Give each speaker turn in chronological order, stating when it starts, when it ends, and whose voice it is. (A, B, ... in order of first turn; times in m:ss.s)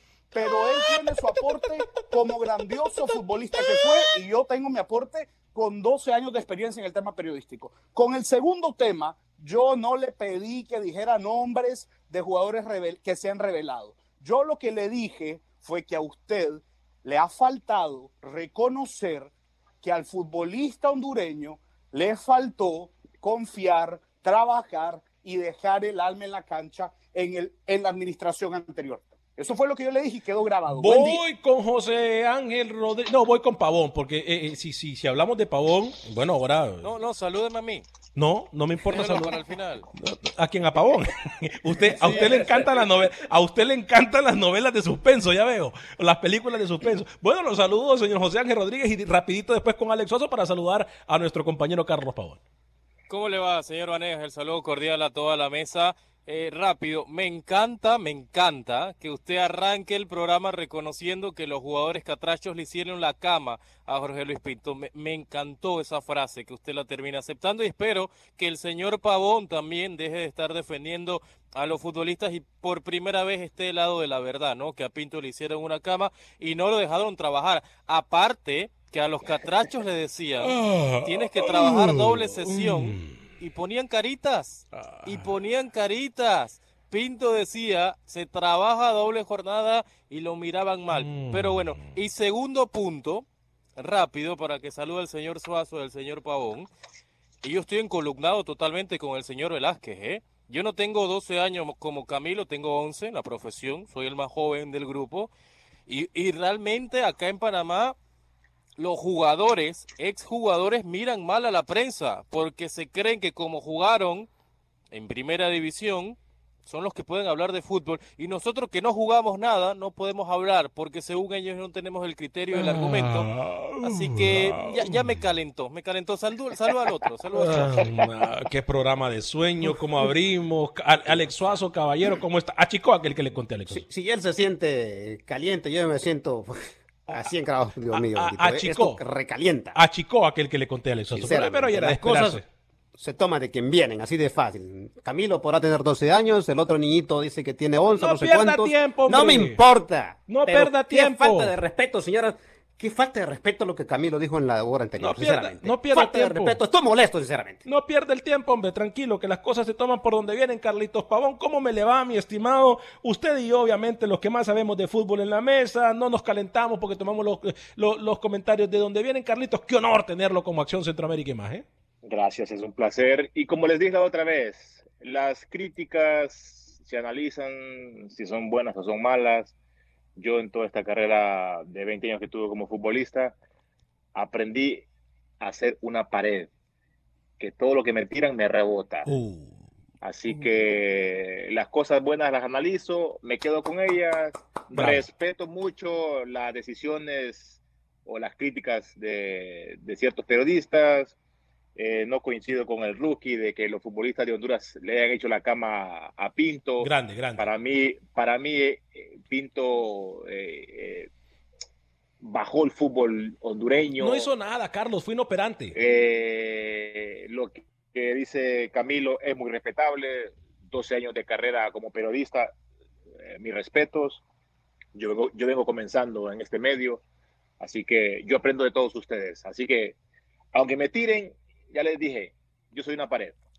0:00.3-0:31.2 A
0:30.7-0:36.9 B
0:36.8-0:37.8 C
0:38.1-0:39.4 B
0:38.8-0:39.9 C
0:40.0-0:52.4 B
0:53.1-1:33.2 C
1:20.4-1:23.3 B
1:24.7-1:25.3 B
1:30.9-1:32.0 B
1:33.8-1:36.7 C
1:37.4-1:45.3 C
1:45.9-1:47.9 C
1:48.8-1:54.3 C
1:54.9-2:07.9 C
2:02.5-2:05.2 B
2:07.3-2:13.8 B
2:13.7-2:19.8 D
2:17.9-2:19.0 B
2:19.7-2:22.4 B
2:21.1-2:22.4 D
2:23.0-2:37.6 D
2:27.9-2:29.6 B
2:30.2-2:31.5 B
2:35.0-2:36.6 B
2:37.6-2:51.6 B
2:52.0-2:59.5 E
3:00.2-3:03.3 E
3:04.1-3:04.8 E
3:05.4-3:06.5 E
3:07.4-3:09.1 E
3:09.0-3:09.6 B
3:10.0-3:21.1 E
3:14.7-3:15.1 B
3:21.8-3:31.1 E
3:26.8-3:27.5 B
3:32.2-3:34.3 E
3:34.0-3:35.8 B
3:35.8-3:42.5 E
3:43.2-3:44.2 E
3:44.9-3:47.0 E
3:47.6-3:50.0 E
3:50.5-3:53.4 E